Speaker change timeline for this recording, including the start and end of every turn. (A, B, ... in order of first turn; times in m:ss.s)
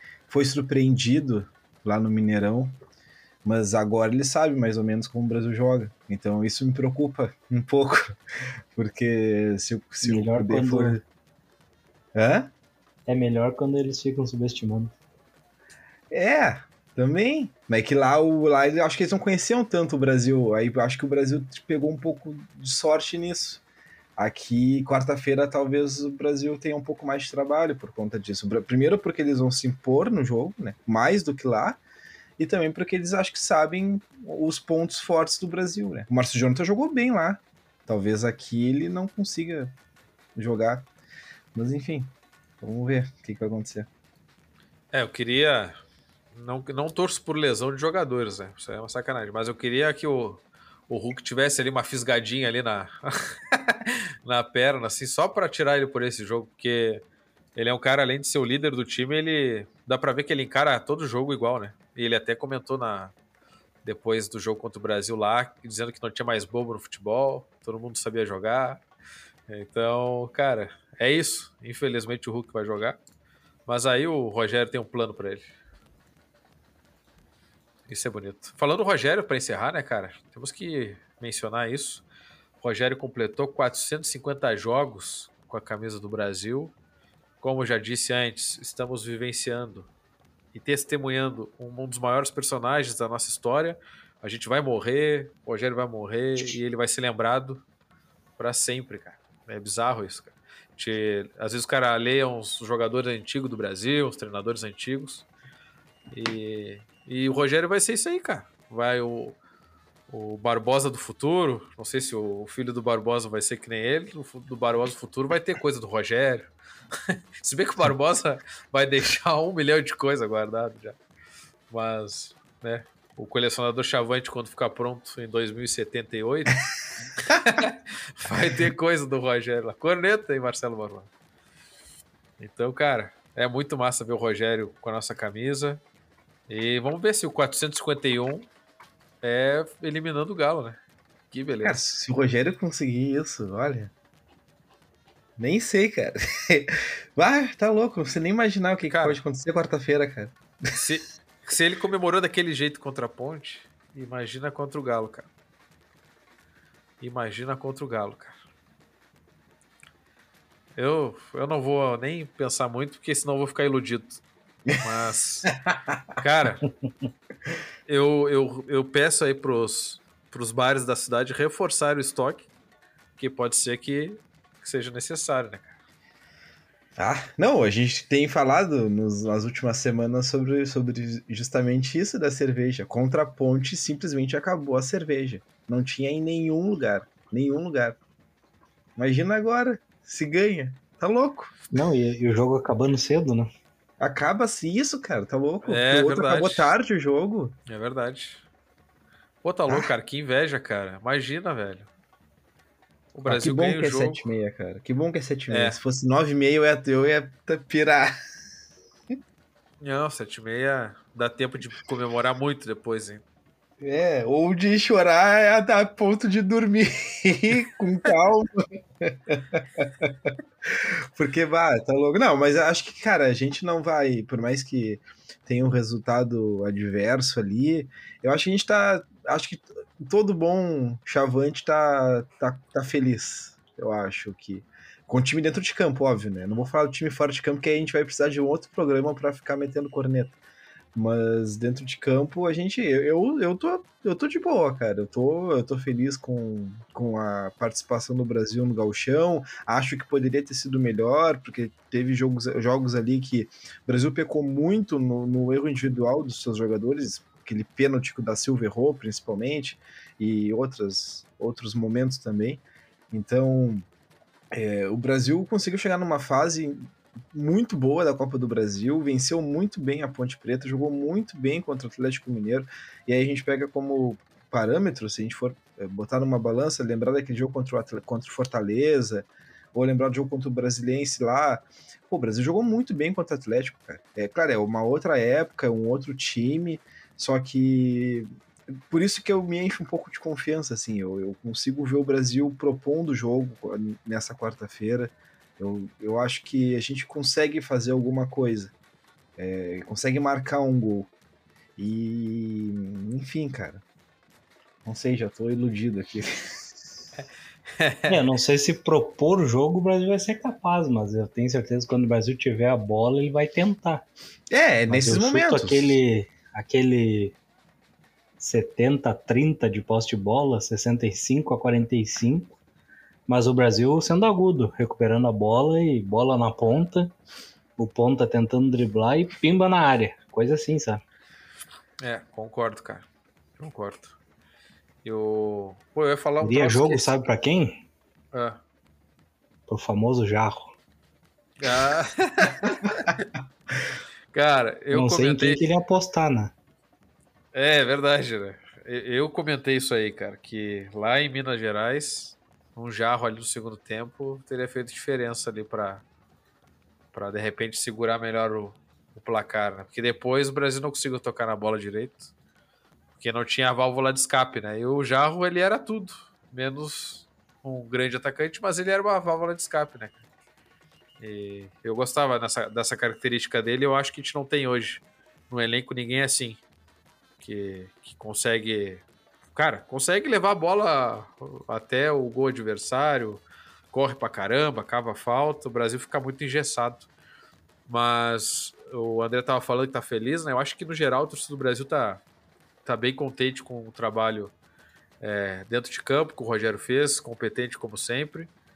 0:00.3-0:02.7 A
0:03.4-0:08.2 A
0:08.7-0:11.0 A
0:10.0-0:11.0 B
0:12.1-0:12.5 A
0:13.1-0:14.9 B
0:16.1-0:23.6 A
0:24.2-0:31.8 A
0:32.4-0:39.7 A
0:40.3-0:40.9 A
0:41.5-0:43.9 A
0:44.9-0:45.8 C
0:46.3-0:57.0 C
0:57.5-1:03.1 C
1:03.8-1:08.8 C
1:09.5-1:13.0 C
1:13.6-1:15.5 C
1:17.9-1:22.0 C
1:22.6-1:26.7 C
1:27.4-1:29.9 C
1:30.5-1:37.6 C
1:38.4-1:45.2 C
1:46.1-1:49.4 C
1:50.1-1:56.5 C
1:57.1-2:01.0 C
2:01.7-2:06.6 C
2:07.2-2:11.1 C
2:12.4-2:15.8 C
2:16.5-2:18.5 C
2:19.2-2:20.8 C
2:21.3-2:21.8 C
2:21.6-2:23.9 A
2:25.4-2:30.7 A
2:28.9-2:29.2 C
2:30.7-2:35.3 C
2:37.0-2:38.4 C
2:40.7-2:44.2 C
2:44.7-2:45.5 C
2:46.2-2:46.7 C
2:47.8-2:52.5 C
2:53.2-2:55.8 C
2:57.0-3:08.0 A
3:09.0-3:11.5 A
3:11.7-3:13.5 B
3:14.0-3:17.6 A
3:15.6-3:16.7 C
3:17.7-3:18.4 C
3:19.4-3:21.9 C
3:19.7-3:19.9 A
3:23.1-3:24.2 C
3:23.2-3:28.1 A
3:25.5-3:25.8 C
3:29.8-3:33.2 C
3:33.8-4:00.4 A
4:00.9-4:23.9 A
4:24.5-4:48.3 A
4:48.9-4:58.7 A
4:59.4-5:01.1 A
5:01.8-5:03.8 A
5:04.8-5:06.4 A
5:07.8-5:08.2 C
5:08.1-5:14.0 B
5:14.5-5:16.0 A
5:14.9-5:17.4 B
5:18.4-5:22.6 B
5:23.3-5:27.1 B
5:27.8-5:31.0 B
5:32.0-5:33.0 C
5:33.6-5:34.2 C
5:35.0-5:37.1 C
5:36.4-5:37.8 B
5:38.3-5:38.6 C
5:39.7-5:40.7 B
5:41.6-5:43.2 C
5:44.3-5:45.6 C
5:44.9-5:46.5 B
5:47.5-5:56.0 C
5:57.1-6:02.3 C
6:03.2-6:10.2 C
6:11.2-6:16.6 C
6:17.4-6:27.1 C
6:27.9-6:32.2 C
6:32.8-6:34.5 C
6:35.2-6:38.5 C